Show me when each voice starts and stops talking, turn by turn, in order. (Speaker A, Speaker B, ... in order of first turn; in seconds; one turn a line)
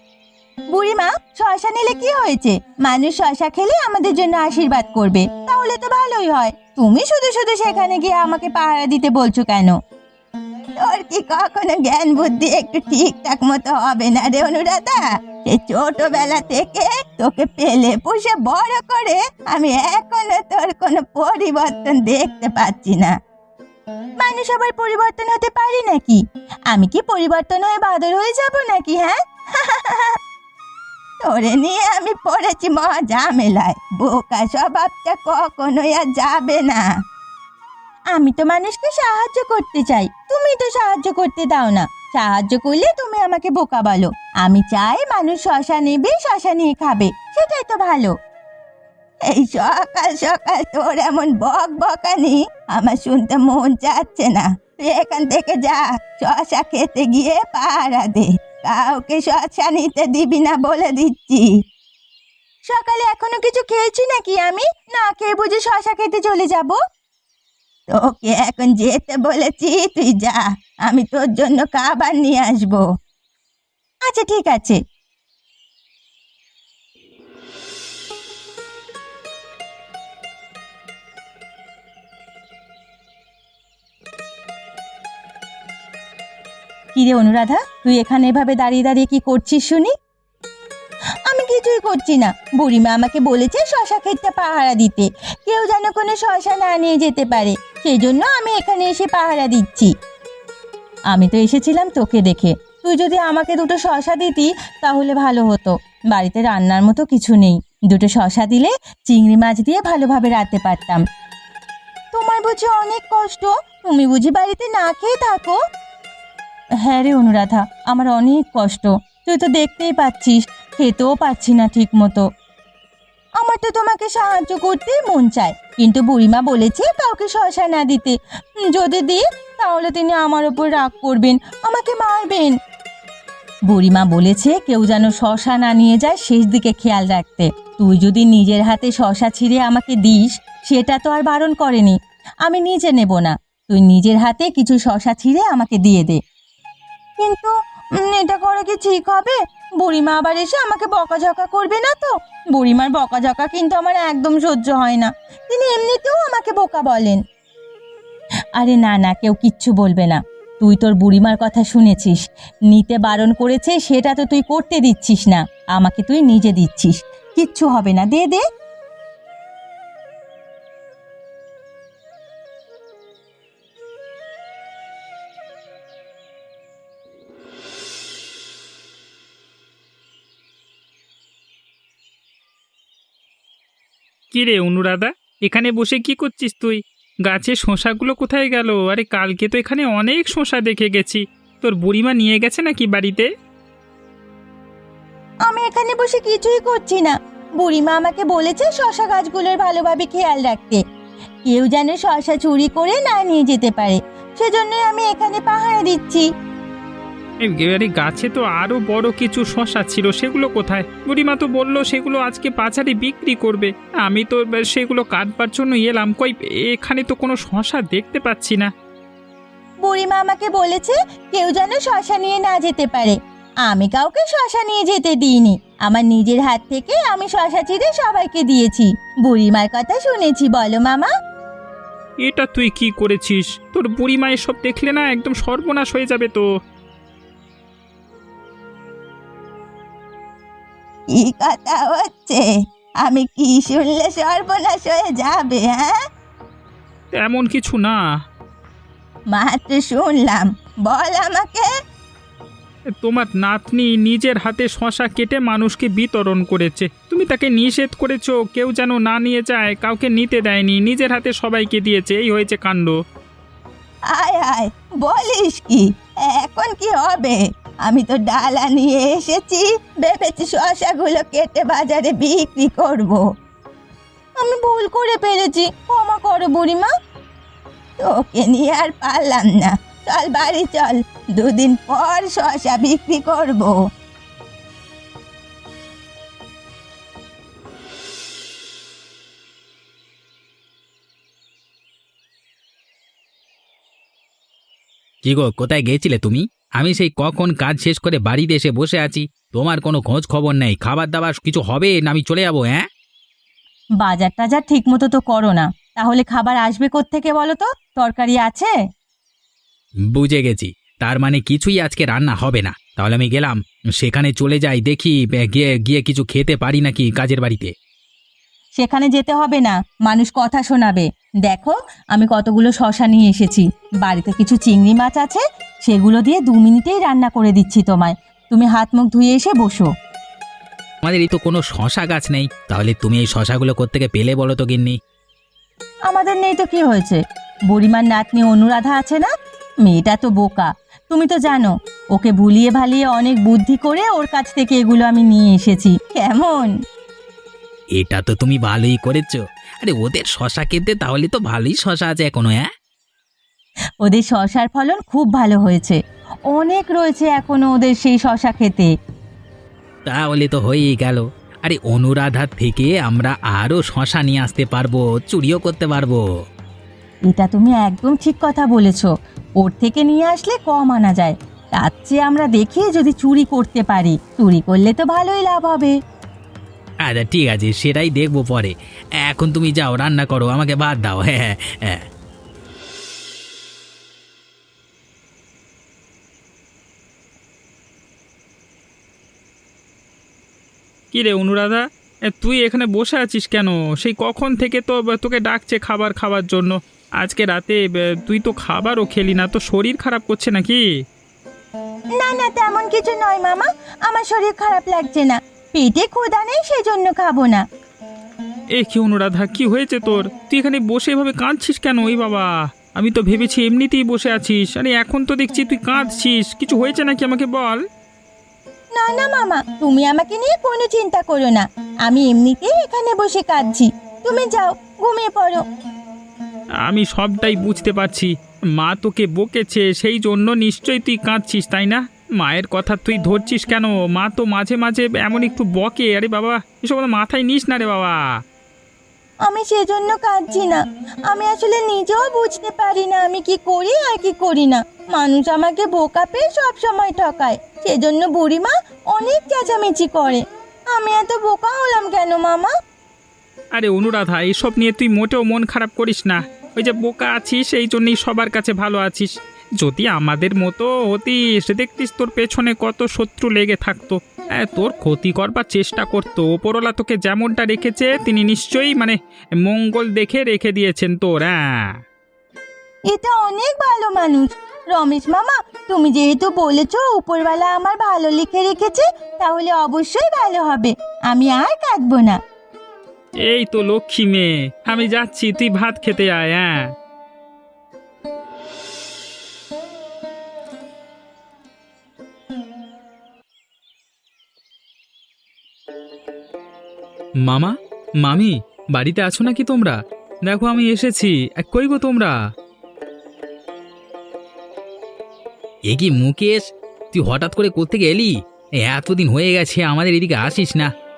Speaker A: 0.7-9.8
Speaker A: 10.8-23.1
Speaker A: 24.2-30.2
Speaker A: 31.2-36.9
Speaker A: 38.1-48.1
Speaker A: 49.3-61.5
Speaker A: 62.7-66.8
Speaker A: 67.9-72.8
Speaker A: 74.1-74.8
Speaker A: 87.0-89.9
Speaker A: 91.3-99.9
Speaker A: 101.1-111.0
Speaker A: 112.1-115.6
Speaker A: 116.8-122.2
Speaker A: 123.4-128.2
Speaker A: 128.7-132.5
Speaker A: 133.7-146.2
Speaker A: 147.2-157.2
Speaker A: 158.6-162.2
Speaker A: 162.7-168.4
Speaker B: 184.3-193.3
Speaker A: 195.5-200.8
Speaker A: 201.4-206.3
Speaker B: 207.4-218.7
Speaker A: 219.8-231.1
Speaker B: 232.2-236.4
Speaker A: 241.1-242.5
Speaker A: 243.0-246.0
Speaker B: 247.1-248.0
Speaker A: 249.3-251.7
Speaker B: 253.0-262.9
Speaker A: 264.1-273.2
Speaker A: 274.4-276.9
Speaker A: 278.0-283.8
Speaker C: 295.2-302.9
Speaker A: 304.0-308.7
Speaker C: 310.1-317.7
Speaker A: 318.8-329.9
Speaker C: 331.0-335.0
Speaker A: 336.1-337.2
Speaker A: 337.7-339.3
Speaker A: 339.9-346.7
Speaker C: 348.0-352.7
Speaker A: 354.0-356.0
Speaker A: 356.5-358.9
Speaker C: 360.1-366.2
Speaker A: 367.3-375.9
Speaker C: 377.0-382.0
Speaker B: 391.1-400.9
Speaker A: 402.2-407.6
Speaker B: 408.8-417.8
Speaker A: 419.0-425.6
Speaker B: 426.9-438.2
Speaker A: 439.5-452.7
Speaker B: 453.8-471.9
Speaker A: 473.1-482.4
Speaker B: 483.4-486.8
Speaker C: 497.4-500.0
Speaker C: 500.5-502.3
Speaker C: 505.9-510.9